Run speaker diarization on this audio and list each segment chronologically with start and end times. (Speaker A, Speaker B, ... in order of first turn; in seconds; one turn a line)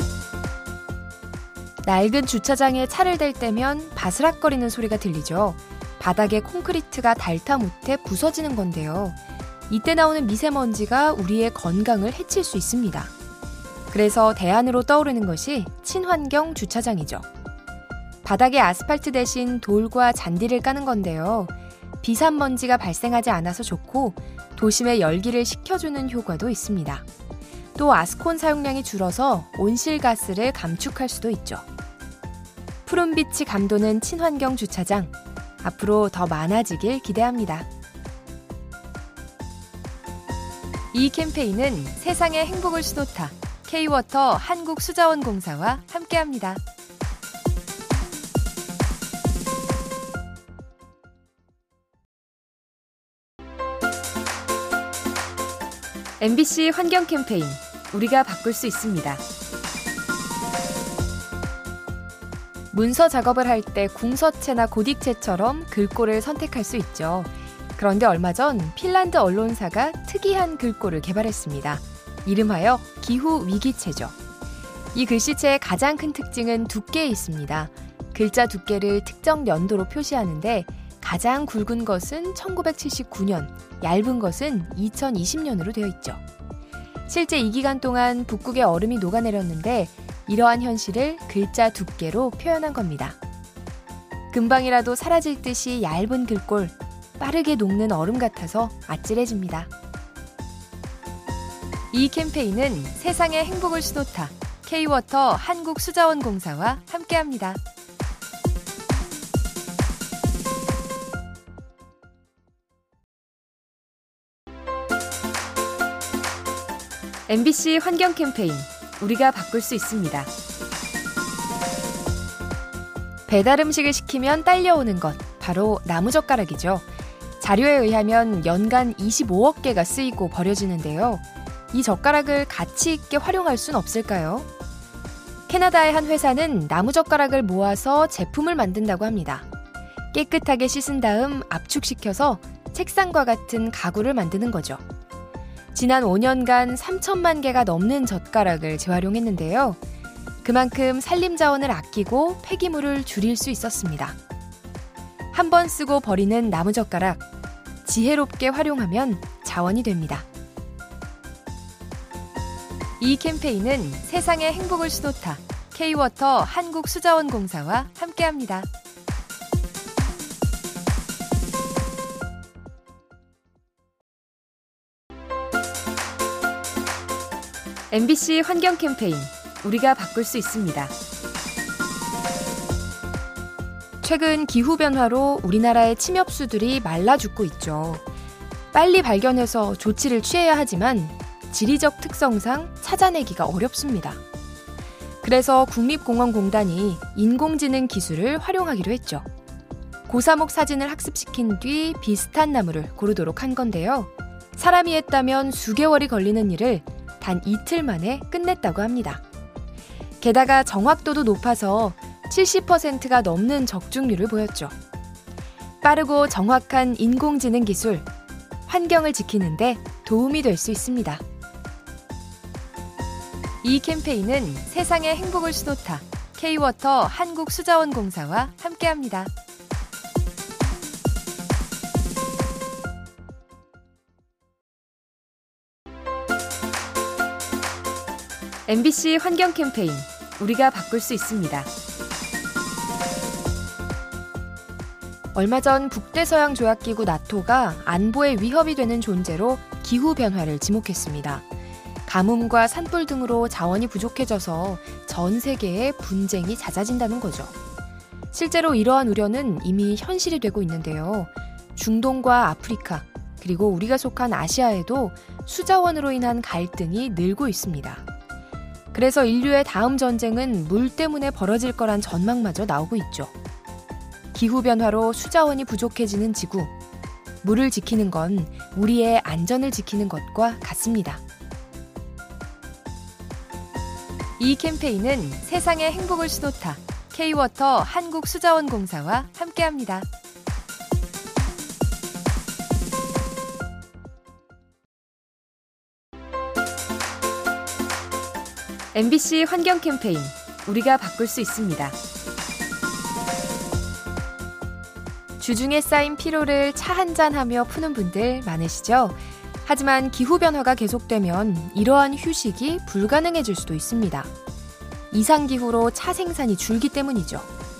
Speaker A: 1.8-9.2
Speaker A: 9.7-13.1
Speaker A: 13.9-17.2
Speaker A: 18.2-27.0
Speaker A: 27.7-31.6
Speaker A: 32.9-37.7
Speaker A: 40.9-46.6
Speaker A: 56.2-59.2
Speaker A: 62.7-74.1
Speaker A: 74.9-86.2
Speaker A: 87.1-93.2
Speaker A: 94.3-99.7
Speaker A: 101.9-107.6
Speaker A: 117.3-120.3
Speaker A: 123.3-126.9
Speaker A: 127.4-134.5
Speaker A: 135.5-139.5
Speaker A: 140.1-144.8
Speaker A: 145.7-149.8
Speaker A: 150.4-154.2
Speaker A: 155.3-157.2
Speaker A: 157.8-160.3
Speaker A: 163.0-168.7
Speaker A: 177.9-180.9
Speaker A: 184.0-188.0
Speaker A: 188.7-194.2
Speaker A: 195.2-199.2
Speaker A: 200.1-209.2
Speaker A: 210.2-214.7
Speaker A: 215.8-218.1
Speaker A: 218.7-221.2
Speaker A: 223.6-229.3
Speaker A: 238.7-241.7
Speaker A: 245.3-251.4
Speaker A: 252.1-257.5
Speaker A: 258.3-268.0
Speaker A: 268.9-273.3
Speaker A: 274.3-276.7
Speaker A: 277.4-281.2
Speaker A: 284.4-290.1
Speaker A: 298.9-302.0
Speaker A: 305.4-314.3
Speaker A: 315.1-317.5